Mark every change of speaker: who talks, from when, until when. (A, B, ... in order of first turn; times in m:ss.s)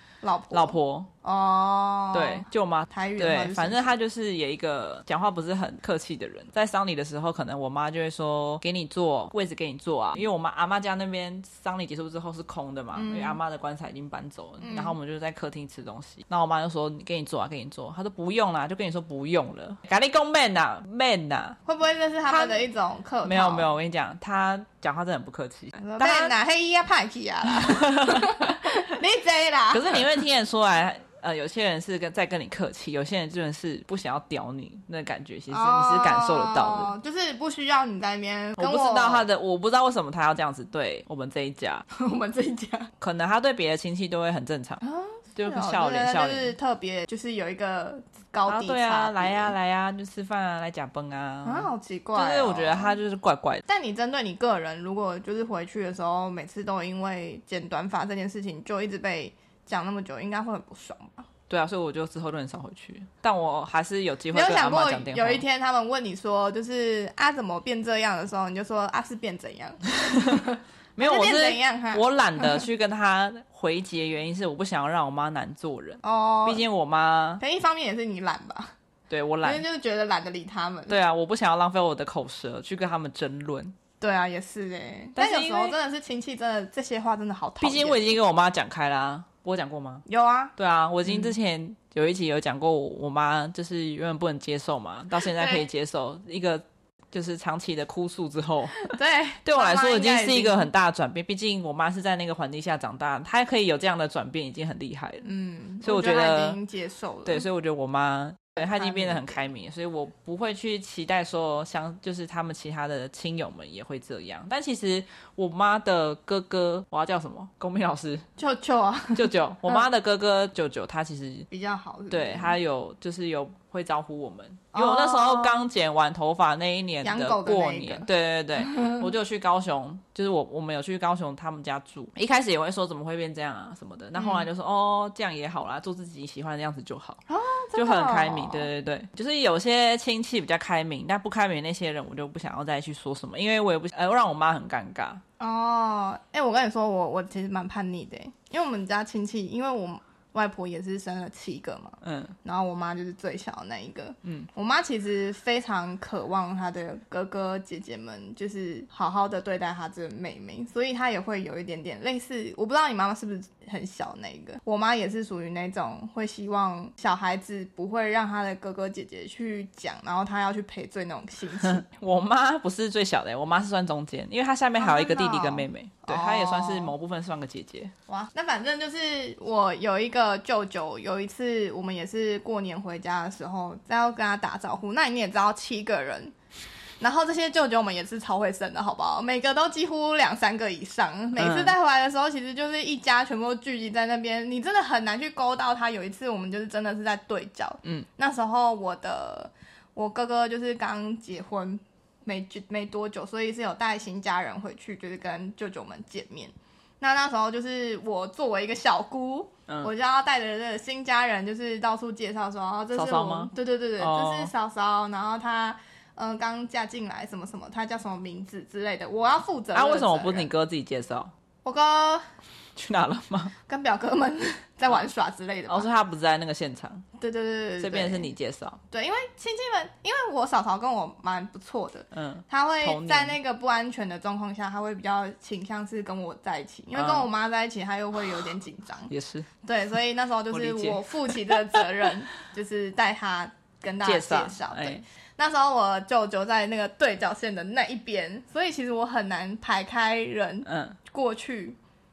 0:00.2-0:03.9 A
0:00.5-0:01.1 B
0:02.1-0:21.6 B
0:12.9-0:13.4 A
0:14.6-0:15.0 A
0:21.7-0:23.7 A
0:22.3-0:22.7 B
0:23.2-0:26.4 B
0:25.8-0:30.1 A
0:27.5-0:28.6 B
0:29.7-0:36.9 B
0:35.5-0:39.2 A
0:38.6-0:41.9 B
0:41.9-0:42.9 A
0:43.0-0:44.8 B
0:44.8-0:49.5 A
0:45.4-0:46.6 B
0:48.5-0:53.6 B
0:51.4-0:53.0 A
0:53.7-1:01.3 A
1:01.5-1:05.4 B
1:04.3-1:12.6 A
1:10.0-1:17.4 B
1:16.0-1:16.6 A
1:17.4-1:18.7 A
1:19.1-1:19.6 B
1:19.4-1:21.0 A
1:20.9-1:23.8 B
1:24.0-1:28.2 A
1:25.2-1:25.8 B
1:27.6-1:30.0 B
1:30.1-1:30.5 A
1:30.6-1:38.9 B
1:31.1-1:31.3 A
1:35.2-1:35.6 A
1:38.8-1:40.7 A
1:39.4-1:45.2 B
1:45.2-1:47.5 A
1:45.8-1:46.6 B
1:47.3-1:58.3 B
1:48.6-1:49.4 A
1:58.4-1:59.8 A
1:59.2-2:01.5 B
2:01.5-2:02.6 A
2:02.1-2:17.2 B
2:04.7-2:05.7 A
2:07.0-2:08.1 A
2:08.7-2:09.0 A
2:14.2-2:14.5 A
2:17.3-2:18.7 A
2:17.8-2:25.2 B
2:25.4-2:51.8 A
2:32.0-2:32.4 B
2:51.6-2:57.9 B
2:54.8-2:56.9 A
2:58.1-3:06.3 A
3:07.0-3:40.5 A
3:11.4-3:11.8 B
3:32.9-3:34.5 B
3:39.7-3:41.3 B
3:41.6-3:42.2 A
3:42.8-3:43.5 B
3:43.7-3:45.9 A
3:45.7-3:47.0 B
3:47.2-3:48.3 A
3:47.8-3:48.8 B
3:48.9-3:59.1 A
3:52.1-3:53.4 B
3:57.0-3:57.3 B
3:59.1-3:59.5 B
3:59.6-4:11.8 A
4:00.5-4:01.6 B
4:04.0-4:05.0 B
4:10.7-4:11.0 B